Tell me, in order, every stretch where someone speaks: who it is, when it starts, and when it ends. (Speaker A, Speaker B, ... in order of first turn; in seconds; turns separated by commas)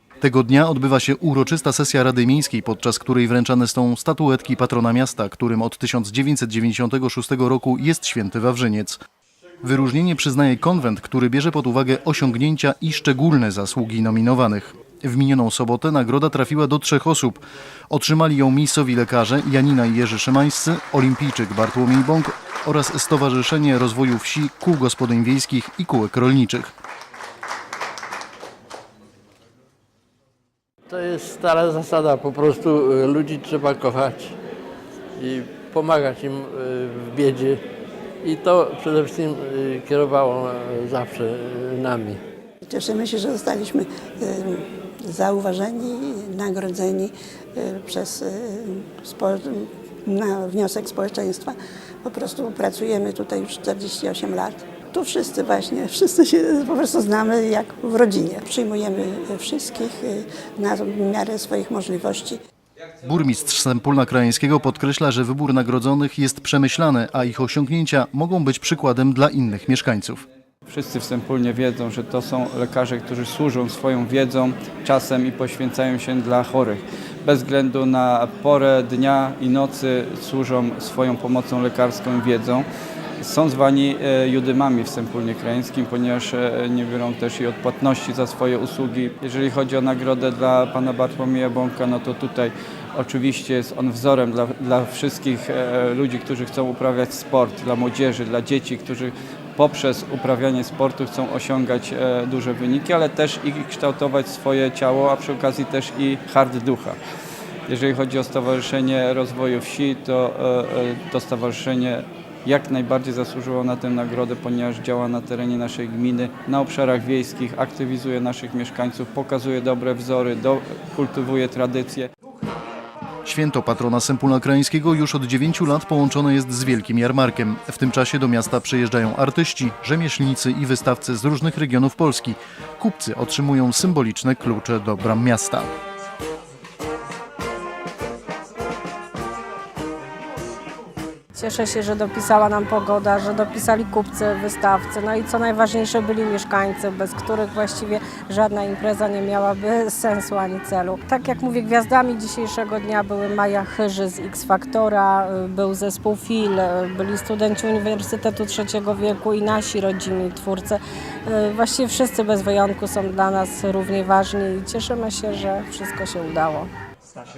Speaker A: 0.2-9.0, Speaker A: 9.6-26.7, Speaker B: 30.9-34.3, Speaker B: 35.2-37.6, Speaker B: 38.2-42.2, Speaker C: 42.6-62.4, Speaker A: 63.0-70.2, Speaker D: 70.7-82.7, Speaker D: 83.2-107.0, Speaker D: 107.7-122.1, Speaker A: 123.2-135.7, Speaker E: 141.3-166.7